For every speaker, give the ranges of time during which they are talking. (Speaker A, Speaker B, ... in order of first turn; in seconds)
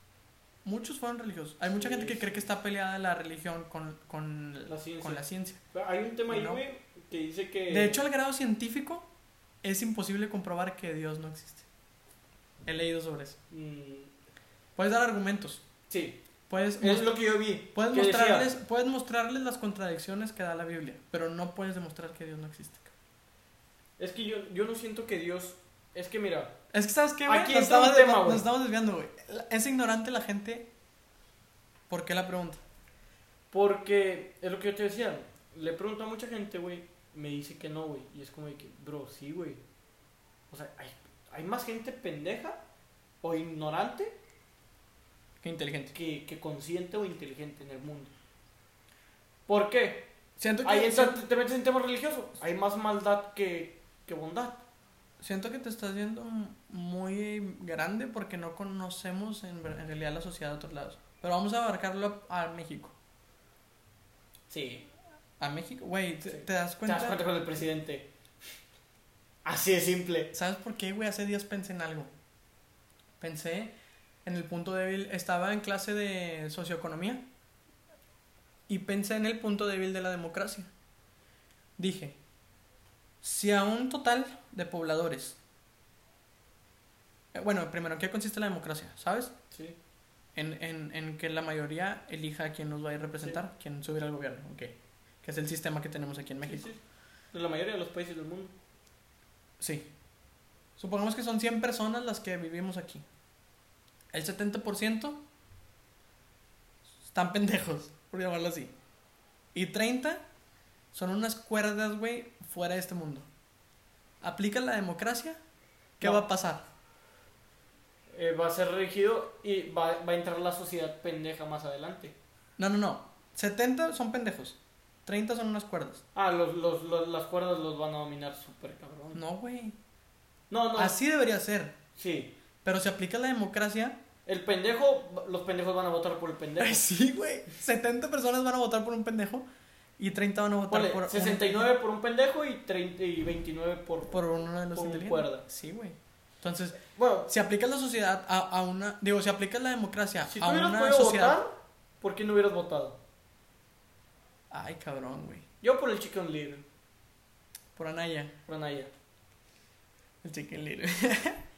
Speaker A: 0.6-5.6, 6.3-6.6, 7.7-9.1, 9.6-11.7, 12.6-13.4, 14.8-15.6, 16.5-22.9, 26.7-30.7, 31.9-32.6, 45.4-45.9, 50.4-51.2, 55.2-62.9, 65.4-67.2, 70.3-72.1, 73.2-73.7, 74.2-77.2, 78.7-80.7, 81.8-82.2, 83.2-85.4, 87.3-89.3, 90.3-96.7, 99.6-99.9, 100.8-103.0, 104.1-105.2, 107.0-108.7, 109.5-110.2, 110.9-113.3, 114.2-115.4, 116.0-116.6, 122.6-126.0, 129.1-129.8, 130.8-131.8, 132.6-134.0, 136.6-139.4, 140.0-141.7, 144.1-151.4, 154.5-155.4, 157.8-158.3, 160.2-161.4
Speaker B: 1.8-2.4, 4.7-8.0, 13.5-14.1, 15.9-16.2, 16.8-18.5, 24.0-26.6, 27.3-28.4, 33.5-39.6, 40.5-42.6, 43.2-44.2, 45.9-48.1, 49.5-50.1, 50.6-54.6, 64.5-64.9, 66.3-68.1, 69.4-70.3, 89.5-89.8, 96.4-96.8, 97.3-98.5, 118.1-122.2, 126.1-129.2, 130.5-130.9, 131.9-132.3, 134.2-136.8, 140.7-144.2, 144.7-145.4, 146.8-147.3, 150.2-153.0, 155.6-156.7, 158.5-158.9